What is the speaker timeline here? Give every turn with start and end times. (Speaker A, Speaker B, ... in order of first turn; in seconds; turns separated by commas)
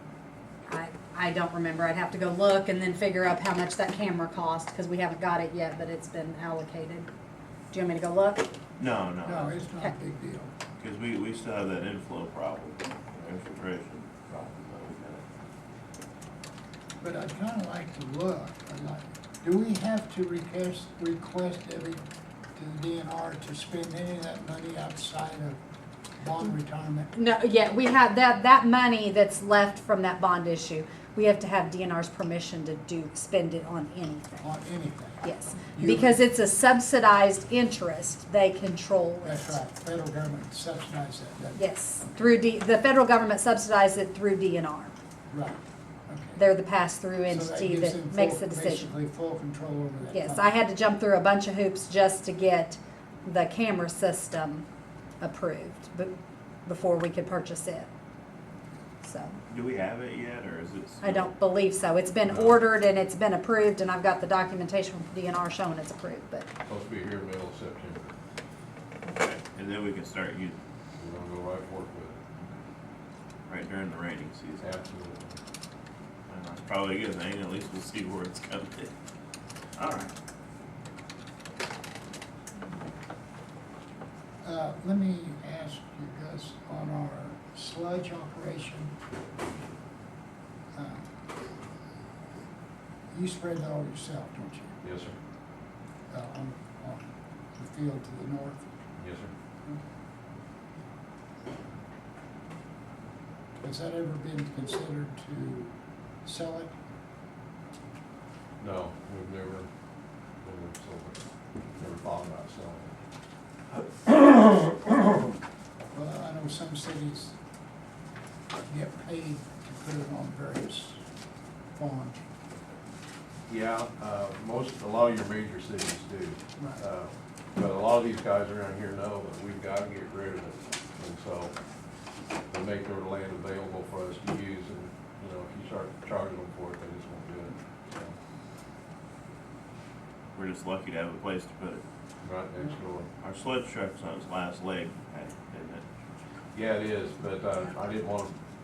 Speaker A: 0.7-7.1, Speaker A: 7.7-8.5, Speaker B: 8.8-9.6, Speaker C: 9.2-10.5, Speaker B: 10.8-15.2, Speaker C: 17.0-22.0, Speaker C: 22.6-25.6, Speaker C: 26.2-27.1, Speaker A: 27.1-34.5, Speaker C: 34.4-36.2, Speaker A: 35.2-39.6, Speaker C: 39.2-42.2, Speaker A: 41.5-45.0, Speaker C: 45.3-45.6, Speaker C: 46.1-46.5, Speaker A: 46.4-49.0, Speaker C: 47.3-50.6, Speaker A: 50.1-54.6, Speaker A: 55.2-57.9, Speaker A: 59.0-59.4, Speaker B: 59.5-61.3, Speaker A: 61.0-66.5, Speaker D: 62.3-62.6, Speaker D: 66.6-68.1, Speaker B: 69.0-70.6, Speaker D: 71.0-72.2, Speaker B: 73.5-74.7, Speaker D: 74.6-75.4, Speaker B: 76.3-78.9, Speaker B: 79.8-80.1, Speaker C: 84.4-88.9, Speaker C: 90.7-91.1, Speaker C: 93.1-94.8, Speaker D: 94.8-95.2, Speaker C: 96.1-98.7, Speaker D: 99.0-99.3, Speaker C: 103.6-105.7, Speaker C: 106.2-106.8, Speaker D: 108.6-109.7, Speaker D: 110.4-111.2, Speaker D: 111.7-112.9, Speaker C: 115.9-117.3, Speaker C: 118.7-121.0, Speaker C: 121.8-122.2, Speaker D: 123.5-131.5, Speaker C: 126.6-126.8, Speaker D: 132.5-138.1, Speaker B: 140.3-141.8, Speaker D: 142.2-143.1, Speaker B: 143.2-145.8, Speaker D: 146.5-148.3